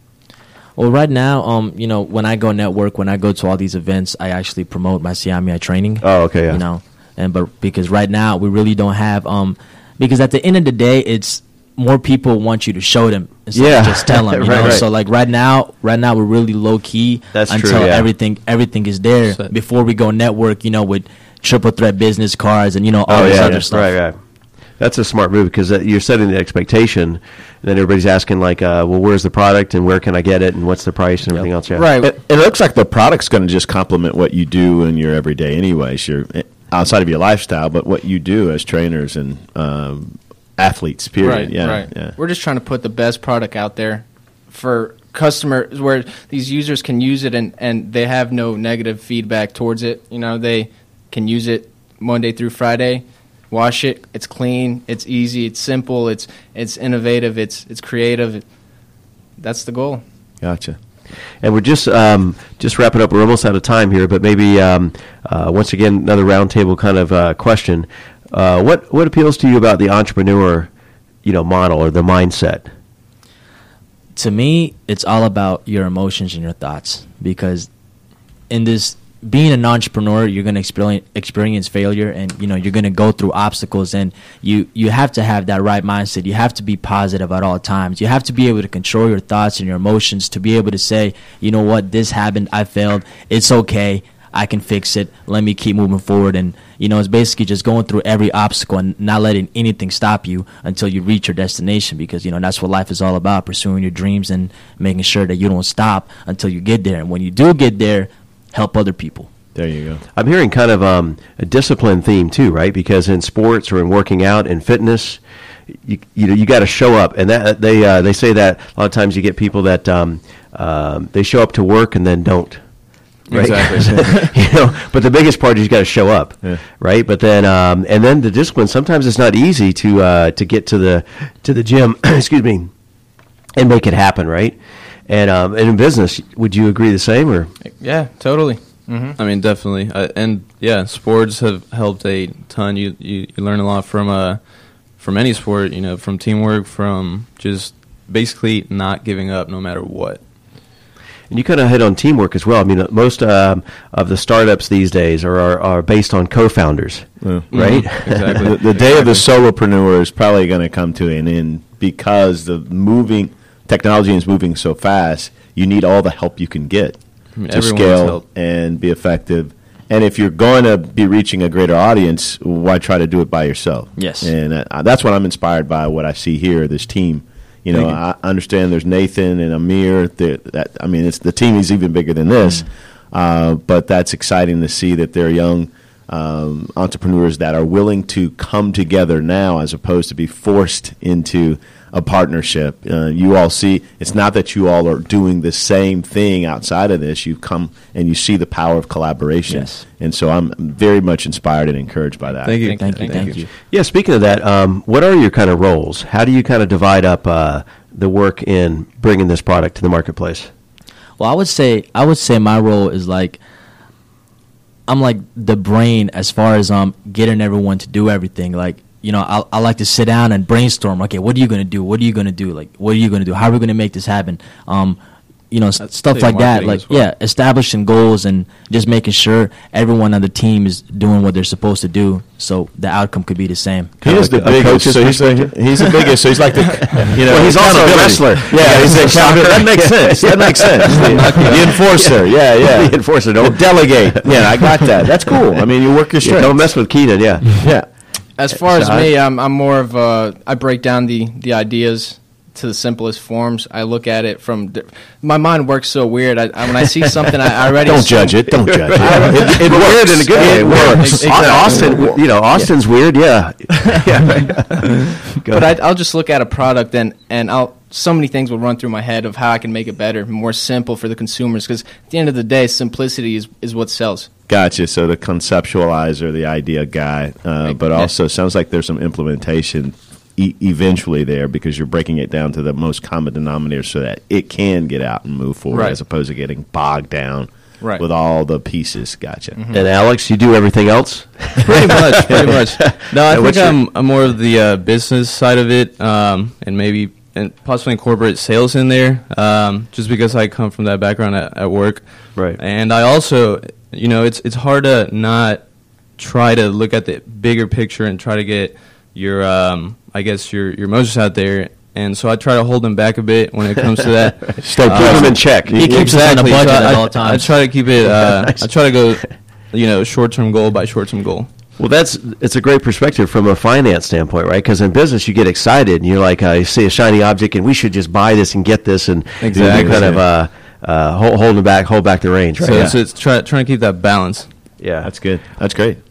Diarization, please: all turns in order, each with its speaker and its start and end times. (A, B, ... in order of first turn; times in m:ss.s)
0:00.8-0:23.9 A
0:06.0-0:06.6 B
0:13.5-0:14.8 B
0:17.3-0:18.1 B
0:23.1-0:24.2 B
0:23.1-0:23.6 C
0:24.8-0:31.8 B
0:31.7-0:32.1 D
0:32.0-0:42.2 C
0:41.2-0:58.4 D
0:59.4-1:00.0 D
1:00.4-1:00.8 C
1:01.4-1:10.7 B
1:11.2-1:12.7 B
1:14.2-1:17.7 A
1:18.5-1:49.3 A
1:49.5-1:50.0 C
1:50.1-1:55.2 B
1:55.8-2:02.6 B
2:03.3-2:12.7 B
2:03.3-2:04.3 E
2:13.6-2:17.5 B
2:17.6-2:19.2 D
2:19.2-2:24.4 E
2:25.0-2:30.2 E
2:31.3-2:38.4 B
2:37.2-2:47.0 C
2:37.5-2:39.2 E
2:47.4-2:48.2 E
2:47.5-3:23.3 C
2:54.0-2:54.3 A
2:57.7-2:58.0 A
3:19.5-3:19.8 A
3:22.4-3:23.3 E
3:22.6-3:23.3 D
3:22.8-3:23.5 A
3:23.6-3:30.5 B
3:31.2-3:33.4 A
3:34.9-3:45.0 A
3:45.5-3:54.0 A
3:45.8-3:47.1 E
3:54.0-3:56.1 B
3:54.0-4:06.7 C
3:56.7-4:05.0 B
4:00.9-4:01.7 E
4:06.2-4:07.6 B
4:07.6-4:07.8 C
4:08.4-4:19.7 D
4:08.6-4:09.1 B
4:17.4-4:17.6 B
4:17.8-4:21.7 C
4:18.5-4:25.8 B
4:20.5-4:22.1 D
4:25.5-4:34.3 D
4:34.5-4:49.6 C
4:37.7-4:38.1 D
4:45.7-4:46.0 D
4:49.6-4:49.9 D
4:49.7-4:53.8 B
4:51.6-5:02.0 E
5:02.6-5:05.6 E
5:06.2-5:21.5 E
5:14.6-5:16.2 C
5:14.8-5:15.8 B
5:15.7-5:17.5 A
5:18.1-5:18.6 B
5:21.8-5:32.9 B
5:29.4-5:30.2 E
5:29.5-5:30.2 C
5:32.6-5:34.5 E
5:34.8-5:35.1 B
5:35.0-5:36.0 C